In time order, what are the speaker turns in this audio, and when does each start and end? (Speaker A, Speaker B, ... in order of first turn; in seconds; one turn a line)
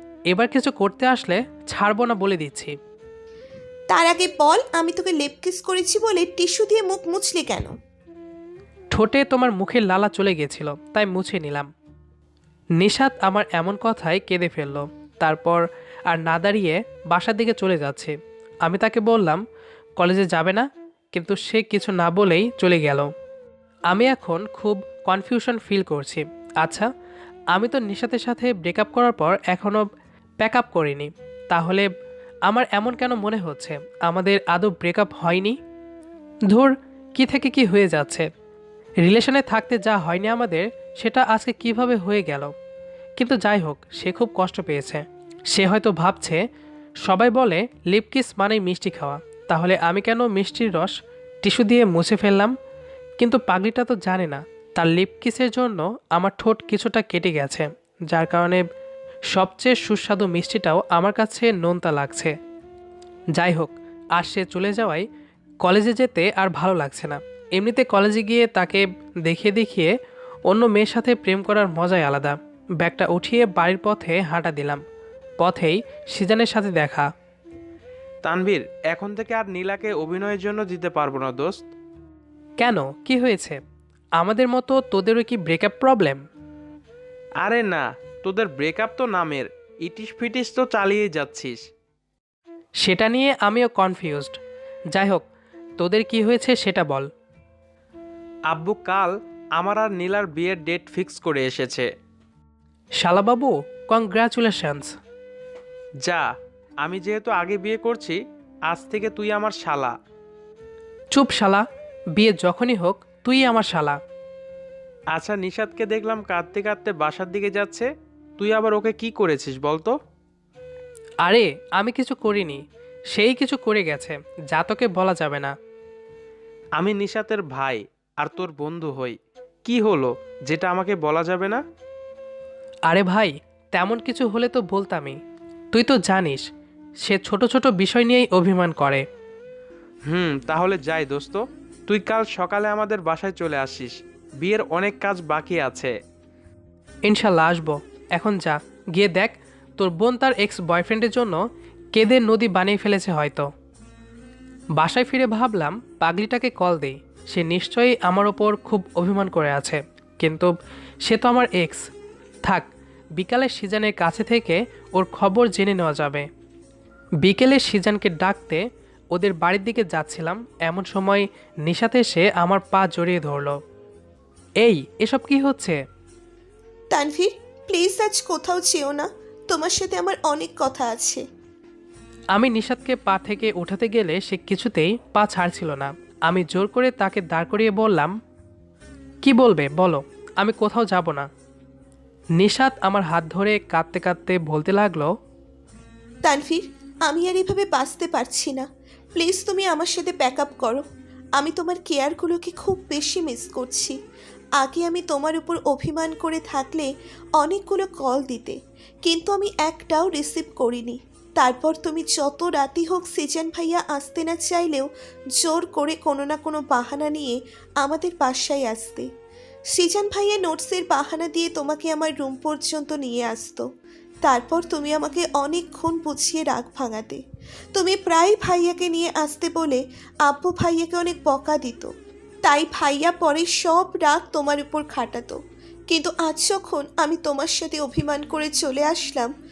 Speaker A: 0.3-2.7
Speaker B: 3.9-7.7
Speaker A: 8.9-11.7
Speaker A: 12.8-19.4
Speaker A: 20.0-23.1
Speaker A: 23.9-26.9
Speaker A: 27.5-29.9
Speaker A: 30.4-31.9
Speaker A: 32.5-35.6
Speaker A: 36.5-38.3
Speaker A: 39.0-42.5
Speaker A: 43.2-46.4
Speaker A: 47.0-52.5
Speaker A: 53.2-58.6
Speaker A: 59.3-62.3
Speaker A: 63.3-65.0
Speaker A: 65.6-69.9
Speaker A: 70.5-74.8
Speaker A: 75.4-77.1
Speaker C: 78.2-81.7
Speaker A: 82.6-83.6
Speaker A: 84.2-86.2
Speaker C: 87.4-91.6
Speaker A: 92.8-94.4
Speaker A: 94.9-95.2
Speaker A: 95.8-97.1
Speaker C: 98.5-101.9
Speaker A: 103.0-104.9
Speaker C: 106.8-109.9
Speaker A: 111.1-111.6
Speaker A: 112.2-114.0
Speaker C: 115.1-117.9
Speaker C: 118.4-119.9
Speaker A: 121.2-122.6
Speaker A: 123.1-125.5
Speaker C: 126.8-131.6
Speaker A: 132.9-135.2
Speaker A: 135.7-136.4
Speaker A: 137.0-139.0
Speaker C: 140.1-145.9
Speaker A: 147.1-151.4
Speaker A: 151.9-153.5
Speaker A: 154.8-160.5
Speaker A: 161.0-161.8
Speaker A: 162.4-166.2
Speaker A: 167.2-168.6
Speaker A: 169.1-173.6
Speaker A: 174.6-175.8
Speaker B: 176.9-181.2
Speaker A: 182.3-188.1
Speaker A: 189.2-191.3
Speaker A: 192.4-195.1
Speaker B: 196.2-200.8
Speaker B: 201.4-203.9
Speaker B: 204.6-219.1
Speaker B: 219.7-223.7
Speaker B: 224.2-227.2
Speaker B: 227.7-231.9
Speaker B: 232.4-235.4
Speaker B: 235.9-239.3